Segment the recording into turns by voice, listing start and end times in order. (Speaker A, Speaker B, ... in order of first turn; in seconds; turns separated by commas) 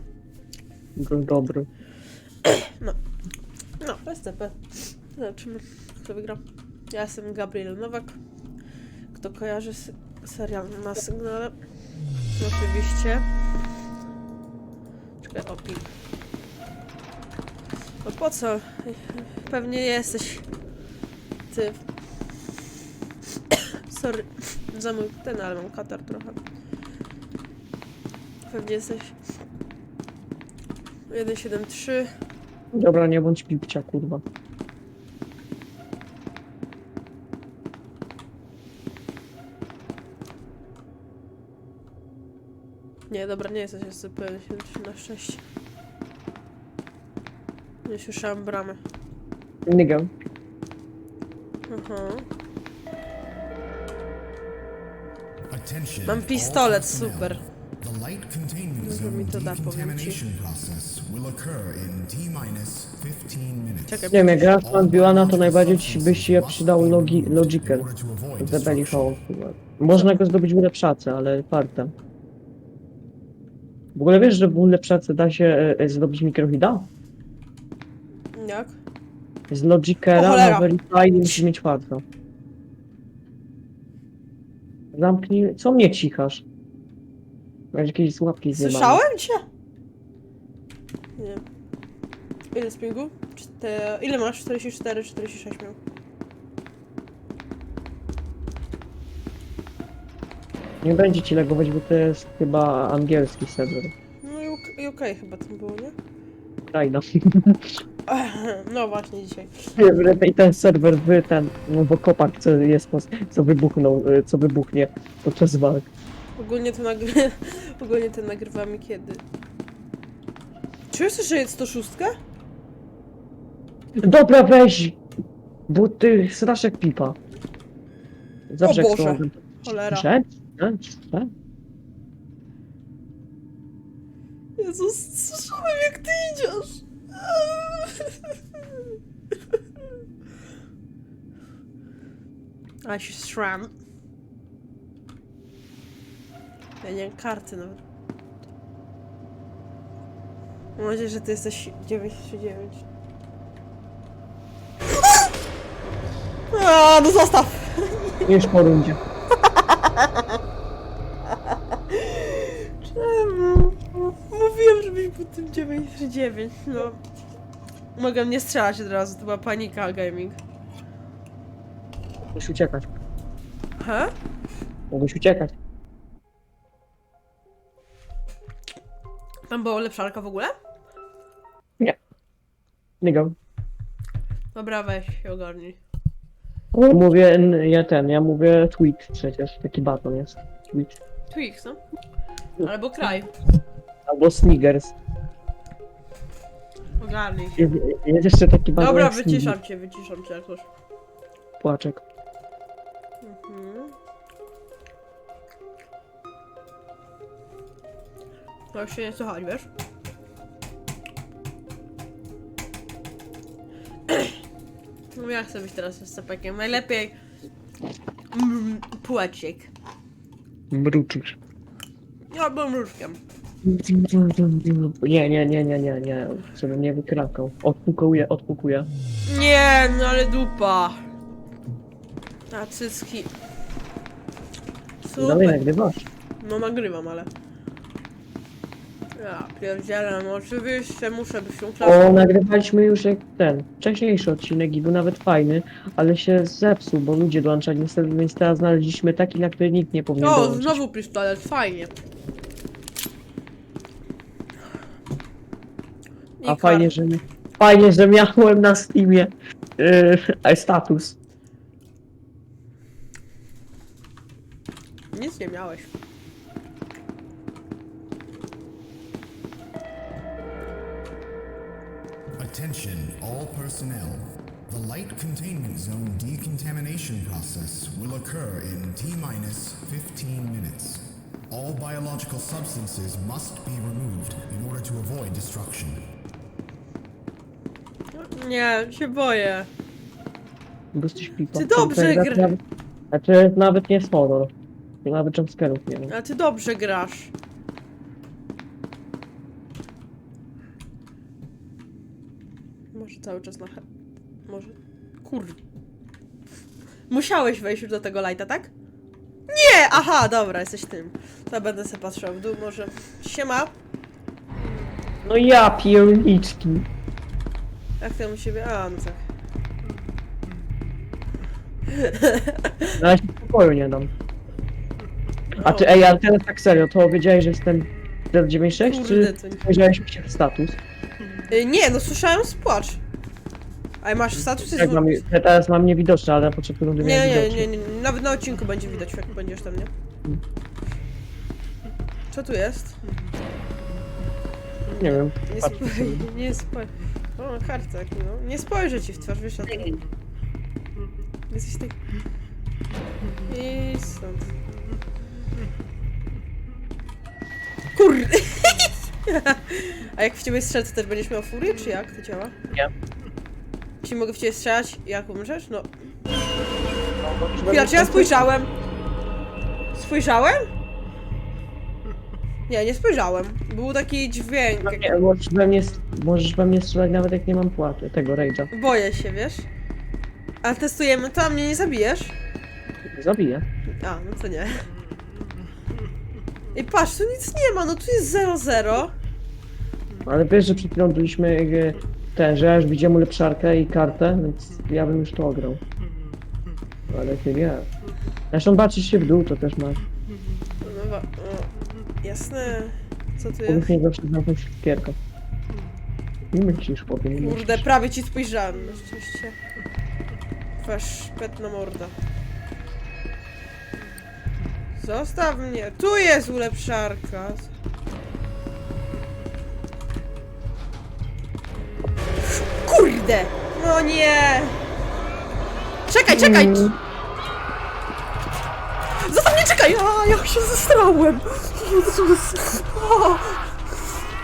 Speaker A: 1.0-1.7, Speaker B: 2.4-3.0, Speaker B: 3.8-8.2, Speaker B: 9.1-11.6, Speaker B: 12.3-13.3, Speaker B: 15.2-15.9, Speaker B: 18.0-20.5, Speaker B: 21.5-21.8, Speaker B: 23.5-26.4, Speaker B: 28.5-29.2, Speaker B: 31.1-32.1, Speaker A: 32.7-34.2, Speaker B: 43.1-45.4, Speaker B: 47.9-48.8, Speaker A: 49.7-50.1, Speaker B: 51.7-52.3, Speaker C: 55.5-69.2, Speaker B: 56.1-57.4, Speaker B: 58.8-60.2, Speaker B: 63.9-64.5, Speaker A: 64.1-67.9, Speaker A: 68.4-71.9, Speaker A: 73.9-76.9, Speaker B: 78.3-78.8, Speaker A: 79.5-82.0, Speaker B: 80.1-80.7, Speaker A: 84.9-86.4, Speaker A: 87.7-89.0, Speaker B: 88.6-89.4, Speaker B: 91.2-91.4, Speaker B: 92.5-95.8, Speaker A: 100.8-103.9, Speaker B: 104.2-105.9, Speaker A: 106.7-107.8, Speaker B: 108.1-109.7, Speaker A: 109.8-115.9, Speaker B: 116.4-119.2, Speaker B: 120.9-122.2, Speaker A: 124.0-125.0, Speaker A: 125.7-127.2, Speaker A: 128.5-131.3, Speaker B: 128.6-130.1, Speaker B: 134.6-138.9, Speaker B: 142.8-143.7, Speaker B: 146.8-147.8, Speaker B: 150.8-152.8, Speaker B: 156.5-158.3, Speaker A: 158.2-159.0, Speaker B: 159.4-160.4, Speaker B: 161.4-167.0, Speaker B: 168.0-170.4, Speaker A: 172.3-172.9, Speaker B: 173.8-174.1, Speaker A: 174.9-175.5, Speaker B: 179.5-180.5, Speaker A: 183.0-183.3, Speaker B: 184.5-185.8, Speaker A: 186.7-191.0, Speaker B: 191.3-191.8, Speaker B: 192.6-193.3, Speaker A: 194.1-194.9, Speaker B: 197.0-197.7, Speaker A: 197.6-199.6, Speaker B: 198.8-200.7, Speaker A: 201.6-202.0, Speaker B: 203.2-203.9, Speaker B: 208.7-209.7, Speaker B: 214.1-214.4, Speaker B: 215.1-217.2, Speaker B: 218.3-219.7, Speaker A: 220.7-221.3, Speaker B: 222.3-223.2, Speaker A: 223.6-228.9, Speaker B: 229.2-231.0, Speaker B: 232.5-233.3, Speaker B: 235.0-235.6, Speaker A: 235.2-236.1, Speaker B: 236.4-237.3, Speaker B: 239.2-242.2, Speaker A: 241.8-250.8, Speaker B: 250.2-251.9, Speaker B: 256.4-256.9, Speaker A: 256.5-261.2, Speaker B: 265.1-265.9, Speaker C: 272.4-286.0, Speaker B: 288.1-289.7, Speaker A: 290.9-292.6, Speaker B: 291.5-292.5, Speaker A: 293.1-294.5, Speaker A: 295.0-296.1, Speaker B: 296.1-297.3, Speaker B: 302.9-303.9, Speaker B: 304.5-305.6, Speaker B: 307.1-308.7, Speaker B: 309.5-313.8, Speaker A: 315.2-316.9, Speaker B: 318.0-319.2, Speaker B: 321.9-323.0, Speaker A: 322.9-324.1, Speaker B: 325.6-325.9, Speaker A: 325.6-330.8, Speaker B: 328.8-329.6, Speaker B: 331.5-333.0, Speaker B: 334.0-335.2, Speaker A: 334.4-337.7, Speaker B: 337.0-339.9, Speaker B: 342.3-343.0, Speaker A: 344.9-346.3, Speaker B: 345.5-350.0, Speaker B: 351.5-352.0, Speaker B: 353.5-354.5, Speaker B: 357.9-362.6, Speaker B: 364.0-365.9, Speaker A: 367.2-368.5, Speaker B: 367.6-368.7, Speaker B: 369.9-370.7, Speaker B: 372.7-375.1, Speaker A: 374.8-378.7, Speaker B: 378.7-379.7, Speaker B: 380.6-382.4, Speaker A: 383.1-383.6, Speaker B: 384.0-384.9, Speaker B: 386.7-389.1, Speaker A: 390.2-395.8, Speaker A: 397.1-397.9, Speaker A: 398.5-400.0, Speaker B: 400.8-403.9, Speaker A: 403.7-405.2, Speaker A: 406.5-407.9, Speaker B: 407.3-409.6, Speaker B: 410.8-412.1, Speaker B: 415.0-417.7, Speaker B: 422.8-424.8, Speaker B: 426.1-426.9, Speaker A: 426.3-427.0, Speaker B: 429.2-433.6